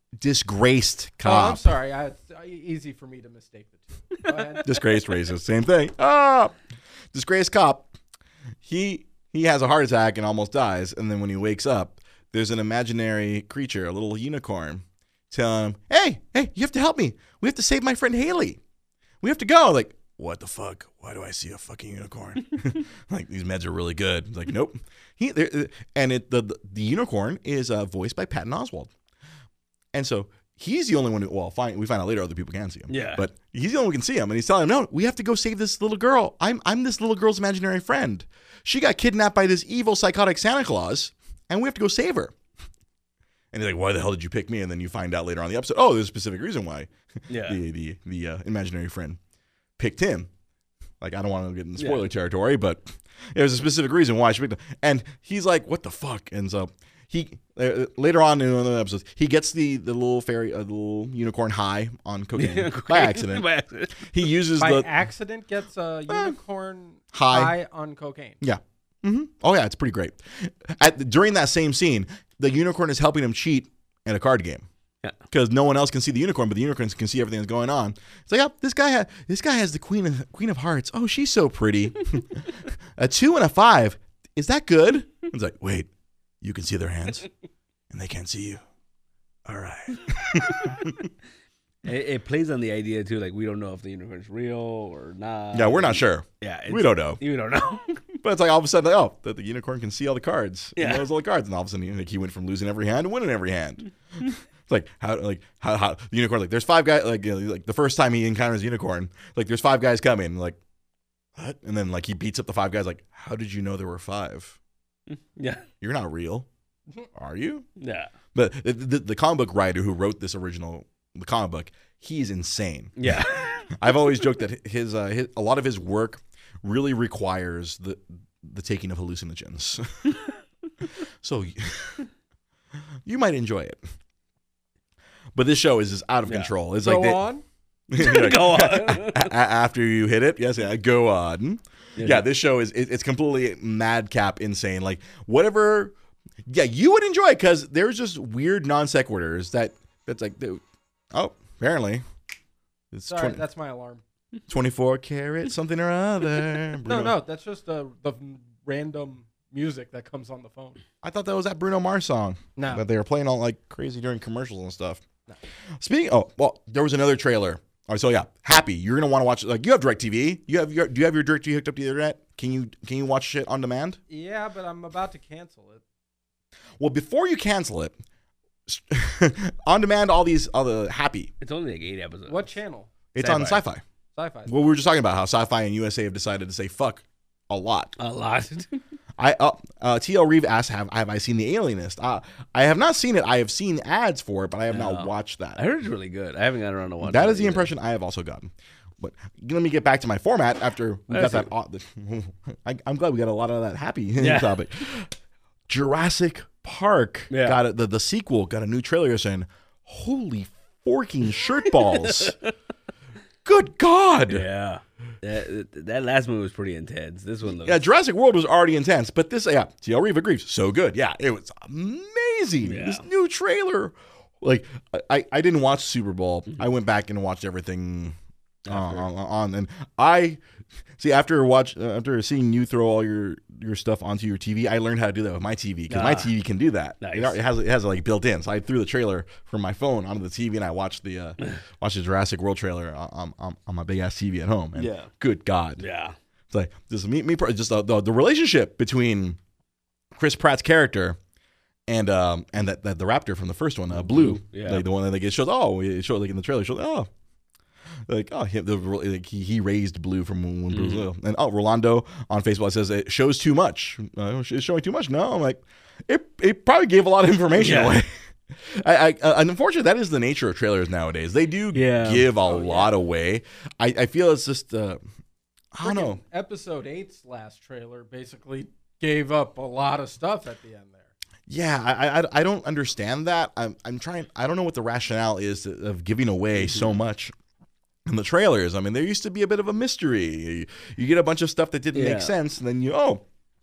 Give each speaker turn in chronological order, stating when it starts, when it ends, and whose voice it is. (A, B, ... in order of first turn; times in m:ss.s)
0:00.2-0:01.7 A
0:01.2-0:04.8 B
0:04.6-0:06.5 A
0:07.1-0:07.9 A
0:08.6-0:18.6 A
0:19.2-0:28.9 A
0:29.9-0:42.3 A
0:32.9-0:33.2 C
0:43.5-0:46.9 A
0:47.3-0:47.6 C
0:47.4-0:49.2 A
0:49.8-0:50.3 A
0:51.0-1:04.9 A
0:51.8-0:52.0 C
1:02.4-1:04.3 C
1:04.6-1:08.4 B
1:06.1-1:06.4 A
1:07.1-1:07.5 A
1:08.4-1:14.6 A
1:15.3-1:25.9 A
1:26.4-1:27.3 A
1:27.9-1:28.6 A
1:29.5-1:31.1 A
1:31.8-1:38.0 C
1:35.5-1:37.2 A
1:38.2-1:50.6 A
1:40.8-1:41.0 C
1:51.4-1:54.6 A
1:55.1-1:55.6 C
1:55.8-1:56.5 A
1:57.1-1:57.6 A
1:57.8-1:58.1 C
1:58.3-2:10.2 A
2:03.0-2:03.8 C
2:11.2-2:12.1 A
2:13.0-2:13.8 A
2:15.3-2:17.2 A
2:16.3-2:16.5 C
2:16.8-2:17.4 B
2:17.9-2:25.9 A
2:18.0-2:19.3 C
2:22.0-2:22.2 C
2:26.5-2:32.0 A
2:32.9-2:33.4 A
2:33.1-2:34.0 B
2:34.5-2:37.2 A
2:36.8-2:40.8 B
2:41.0-2:45.0 A
2:42.6-2:42.8 B
2:45.8-2:54.0 A
2:54.1-2:55.8 B
2:56.8-2:58.0 A
2:58.7-3:01.3 A
3:01.4-3:02.5 C
3:02.3-3:02.9 B
3:03.1-3:03.8 A
3:03.2-3:03.6 C
3:04.1-3:04.8 B
3:04.5-3:07.9 A
3:08.0-3:08.8 C
3:09.2-3:15.6 A
3:14.7-3:17.7 C
3:17.0-3:25.1 A
3:21.1-3:21.5 C
3:24.2-3:24.6 C
3:25.7-3:32.4 A
3:27.3-3:27.6 C
3:31.7-3:32.5 C
3:33.4-3:34.4 A
3:34.3-3:37.8 C
3:37.6-3:48.2 A
3:42.6-3:43.0 C
3:48.6-3:49.0 C
3:48.7-3:50.4 A
3:51.0-4:05.8 A
3:55.9-3:56.3 C
3:57.0-3:57.4 C
4:04.8-4:05.1 C
4:05.8-4:06.2 C
4:06.5-4:09.4 A
4:10.1-4:11.2 A
4:11.9-4:17.1 A
4:13.9-4:14.8 C
4:18.1-4:35.0 A
4:20.7-4:21.1 C
4:27.6-4:28.0 C
4:31.7-4:32.9 C
4:35.7-4:36.2 A
4:35.8-4:41.0 B
4:41.5-4:47.3 A
4:46.6-4:47.0 C
4:48.1-4:53.2 A
4:51.9-4:52.3 C